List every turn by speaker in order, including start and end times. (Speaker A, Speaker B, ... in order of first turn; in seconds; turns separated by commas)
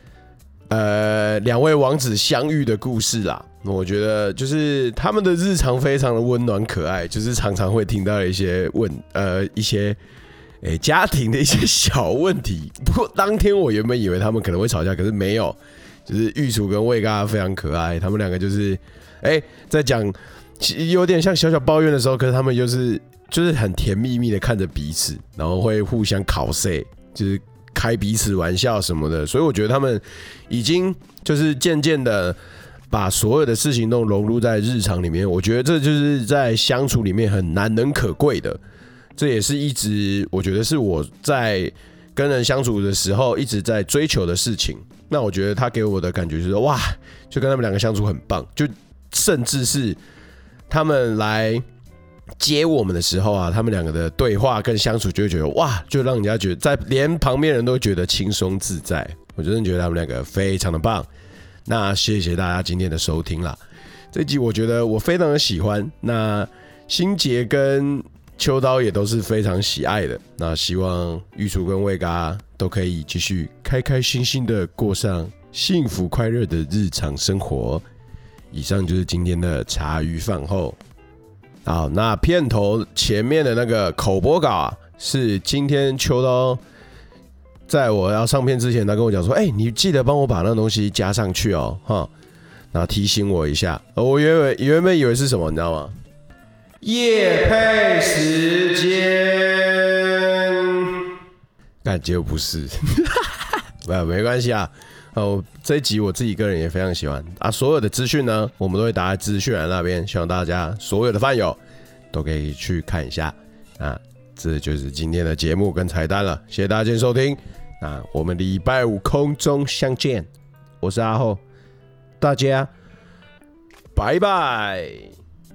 Speaker A: 0.7-10.0, Speaker A: 10.6-32.4, Speaker A: 32.9-38.6, Speaker A: 39.1-50.0, Speaker A: 50.7-51.6, Speaker A: 52.4-61.1, Speaker A: 61.6-63.6, Speaker A: 64.1-77.8, Speaker A: 78.5-80.8, Speaker A: 81.6-86.6, Speaker A: 87.7-92.1, Speaker A: 92.7-95.9, Speaker A: 96.8-100.9, Speaker A: 101.8-103.2, Speaker A: 103.8-111.6, Speaker A: 112.1-120.3, Speaker A: 120.8-121.4, Speaker A: 122.2-122.7, Speaker A: 123.9-125.1